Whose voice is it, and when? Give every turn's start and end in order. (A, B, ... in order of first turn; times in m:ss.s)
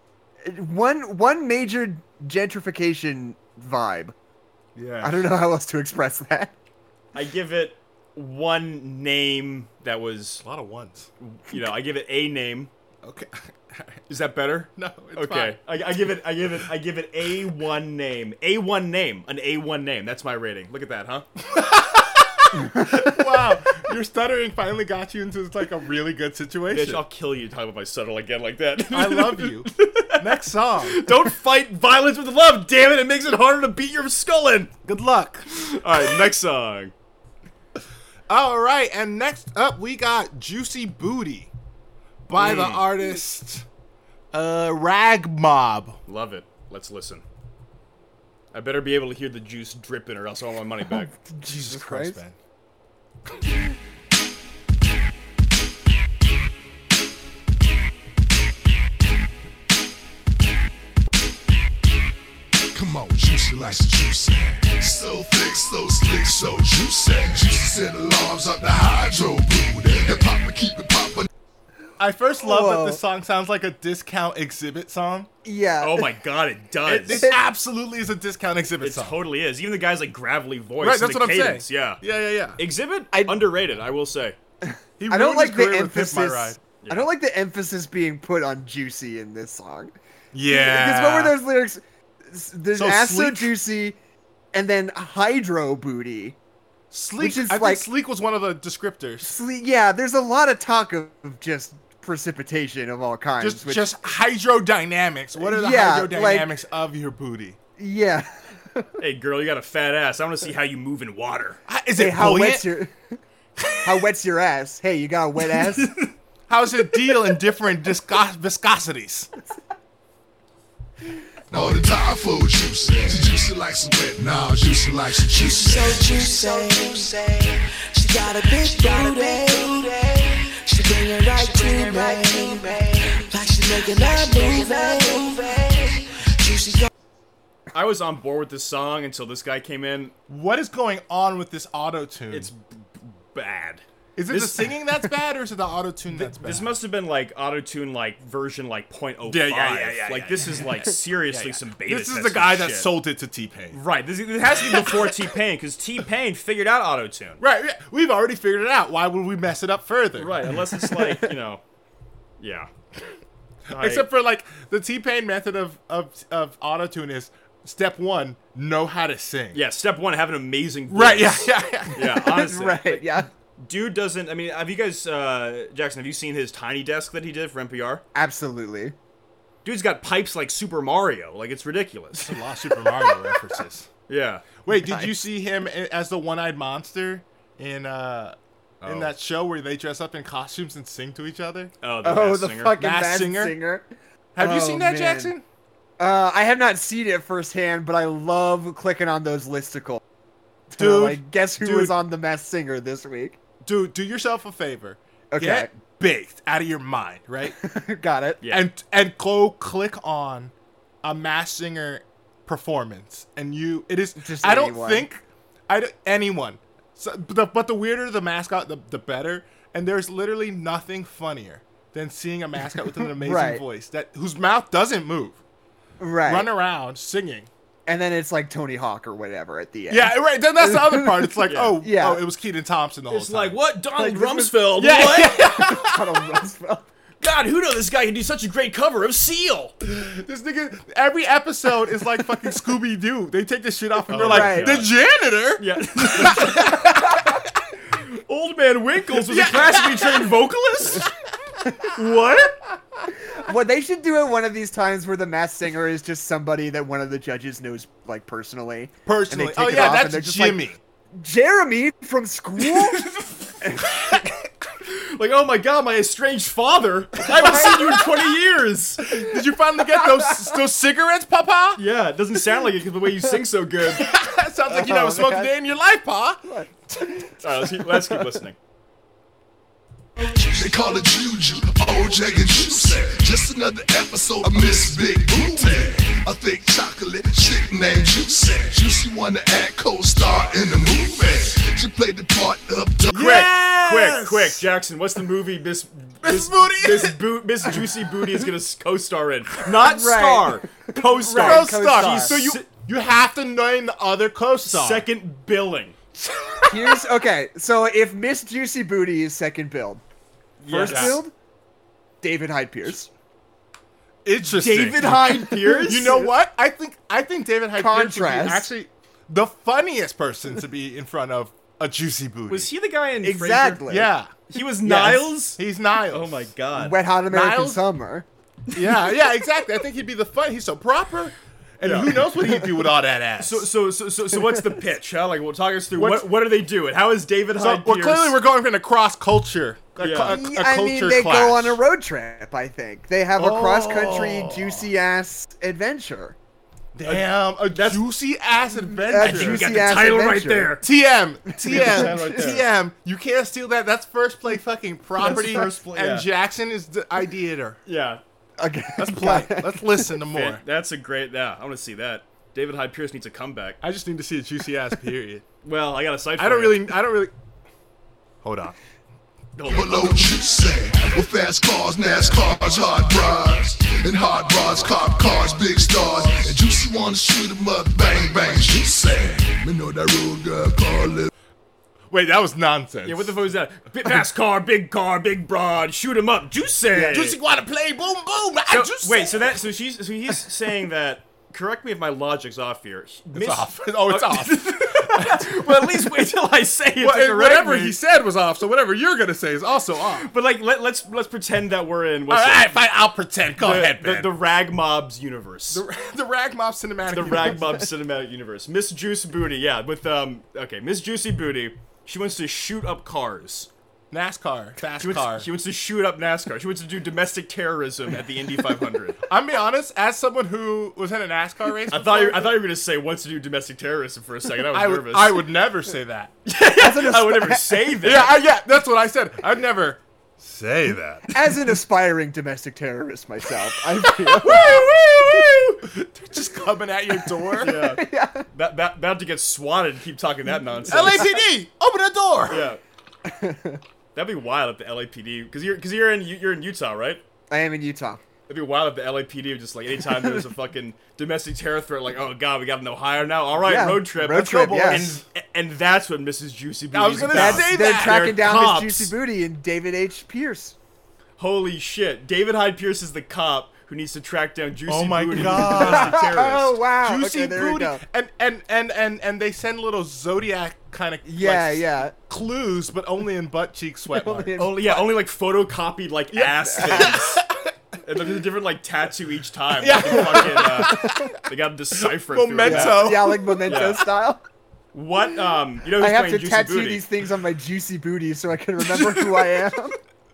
0:00.4-0:04.1 A
0:04.8-0:05.2 B
0:05.0-0:06.5 A
0:07.1-0:10.4 B
0:10.4-0:11.1 C
0:11.2-0:12.7 B
0:13.0-0:14.0 C
0:14.1-0:21.3 B
0:14.8-0:15.6 C
0:21.5-0:27.0 C
0:26.7-0:34.7 B
0:28.9-0:31.0 C
0:34.8-0:35.5 C
0:35.5-0:36.9 B
0:38.3-0:41.5 C
0:42.3-0:43.6 C
0:42.4-0:42.9 B
0:44.3-0:46.0 C
0:46.1-0:47.2 B
0:48.5-0:51.1 B
0:50.9-0:52.2 A
0:51.5-0:52.4 C
1:02.7-1:11.3 D
1:12.0-1:15.3 C
1:12.4-1:13.0 A
1:15.4-1:16.1 A
1:15.8-1:17.3 B
1:16.9-1:19.2 C
1:17.1-1:17.4 A
1:18.8-1:22.0 B
1:20.8-1:22.6 C
1:22.6-1:24.4 B
1:23.1-1:23.5 A
1:24.6-1:30.0 A
1:25.0-1:26.6 C
1:26.8-1:27.1 B
1:30.3-1:31.4 C
1:30.5-1:34.0 A
1:32.7-1:33.5 C
1:34.5-1:36.4 A
1:36.9-1:39.4 C
1:37.2-1:37.9 A
1:39.2-1:43.9 A
1:43.4-1:47.6 C
1:45.4-1:46.5 A
1:47.8-1:48.9 A
1:49.0-1:51.6 B
1:51.7-1:52.7 C
1:52.0-1:52.9 A
1:53.6-1:53.9 C
1:53.8-1:56.0 A
1:56.5-1:59.3 C
2:01.5-2:06.2 D
2:05.3-2:16.9 E
2:17.7-2:20.1 B
2:20.3-2:22.5 C
2:22.3-2:24.7 B
2:24.2-2:26.8 C
2:26.1-2:32.9 B
2:29.2-2:33.8 C
2:33.7-2:37.4 B
2:37.4-2:41.2 C
2:40.2-2:41.6 B
2:42.4-2:42.7 B
2:43.7-2:44.1 B
2:43.7-2:49.6 C
2:49.5-2:58.0 B
2:50.9-2:52.1 C
2:52.0-2:53.3 A
2:58.2-2:59.0 A
2:59.6-3:02.4 B
3:02.2-3:03.9 C
3:04.1-3:04.5 B
3:04.6-3:11.7 C
3:04.7-3:05.1 A
3:08.8-3:09.1 B
3:11.8-3:12.8 B
3:12.0-3:13.9 A
3:12.8-3:13.6 C
3:14.4-3:15.4 C
3:14.4-3:15.3 A
3:16.0-3:20.0 A
3:20.7-3:23.4 A
3:20.8-3:22.0 C
3:23.6-3:27.6 C
3:25.3-3:25.7 A
3:27.5-3:28.4 A
3:28.4-3:28.7 B
3:28.5-3:30.5 C
3:31.0-3:45.4 C
3:34.2-3:35.1 A
3:43.1-3:43.6 A
3:46.0-3:46.5 A
3:46.3-3:47.5 C
3:47.9-3:52.2 A
3:49.9-3:53.6 C
3:51.5-3:51.8 B
3:53.1-3:55.6 B
3:54.0-3:54.6 A
3:54.8-3:56.0 C
3:55.4-3:56.9 A
3:57.2-3:59.7 B
3:59.8-4:07.3 C
4:04.1-4:04.9 B
4:04.2-4:04.9 A
4:05.6-4:07.0 B
4:07.9-4:11.1 B
4:09.1-4:10.3 C
4:11.9-4:12.6 B
4:13.3-4:20.6 A
4:19.1-4:20.8 C
4:21.2-4:23.1 A
4:22.6-4:24.2 B
4:24.8-4:29.1 B
4:27.4-4:27.8 A
4:29.0-4:31.8 C
4:30.0-4:30.5 A
4:31.8-4:34.1 B
4:33.9-4:36.4 C
4:34.7-4:35.5 A
4:36.5-4:38.4 A
4:37.4-4:38.6 B
4:40.3-4:53.1 D
4:53.1-5:02.6 B
4:53.1-4:54.6 C
4:56.2-4:57.2 C
4:59.8-5:02.4 A
5:01.2-5:05.1 C
5:04.6-5:06.0 B
5:06.2-5:06.7 C
5:06.6-5:10.0 A
5:10.6-5:11.2 B
5:10.7-5:11.3 A
5:10.8-5:11.2 C
5:12.2-5:13.1 A
5:14.2-5:22.7 C
5:14.4-5:16.3 B
5:17.7-5:18.7 A
5:22.5-5:23.9 B
5:23.2-5:24.1 A
5:23.9-5:24.3 C
5:24.5-5:27.0 B
5:24.8-5:25.4 A
5:25.6-5:26.5 C
5:26.8-5:28.3 A
5:27.3-5:27.8 C
5:28.8-5:33.7 C
5:31.8-5:32.3 B
5:33.4-5:38.4 B
5:36.0-5:36.4 C
5:37.6-5:41.8 C
5:40.0-5:40.4 B
5:40.3-5:46.4 A
5:43.4-5:44.9 C
5:47.0-5:49.9 C
5:47.0-5:48.0 B
5:48.9-5:50.8 A
5:49.1-5:50.8 B
5:50.8-5:57.8 C
5:51.6-5:52.4 A
5:51.6-5:52.7 B
5:55.2-5:56.3 B
5:57.9-5:58.2 B
5:58.6-6:00.1 A
5:59.0-6:00.6 C
6:00.3-6:03.8 B
6:03.8-6:05.4 C
6:05.6-6:06.9 B
6:06.4-6:07.3 C
6:08.4-6:08.8 C
6:09.6-6:10.0 B
6:09.6-6:21.3 D
6:22.1-6:23.4 C
6:23.0-6:27.4 B
6:26.9-6:29.5 C
6:28.7-6:38.0 B
6:33.3-6:35.6 C
6:37.0-6:40.3 C
6:40.2-6:42.9 B
6:42.3-6:44.3 C
6:43.6-6:45.8 B
6:45.7-6:47.7 C
6:47.1-6:53.7 B
6:54.1-6:55.5 C
6:55.0-6:59.2 B
6:59.3-7:02.5 C
7:01.9-7:05.4 B
7:04.7-7:06.3 C
7:06.4-7:08.4 B
7:06.8-7:07.9 A
7:08.0-7:11.6 C
7:11.3-7:14.8 A
7:14.1-7:15.8 B
7:14.3-7:17.8 C
7:17.4-7:18.5 A
7:17.6-7:21.3 B
7:20.9-7:22.7 C
7:22.5-7:22.8 B
7:23.3-7:23.8 A
7:24.2-7:27.2 B
7:27.5-7:28.2 A
7:28.5-7:39.1 B
7:33.6-7:35.2 A
7:34.3-7:35.2 C
7:36.9-7:38.5 C
7:37.3-7:40.8 A
7:41.4-7:46.8 B
7:44.9-7:46.2 C
7:45.4-7:48.0 A
7:47.0-7:55.0 C
7:51.2-7:52.1 A
7:54.1-7:55.0 A
7:54.6-7:57.4 B
7:56.3-7:57.7 C
7:56.6-7:57.2 A
7:58.0-8:04.0 B
7:59.8-8:01.4 C
8:00.0-8:01.3 A
8:02.0-8:04.0 C
8:02.6-8:04.4 A
8:04.9-8:07.0 B
8:05.9-8:10.0 A
8:08.9-8:09.6 C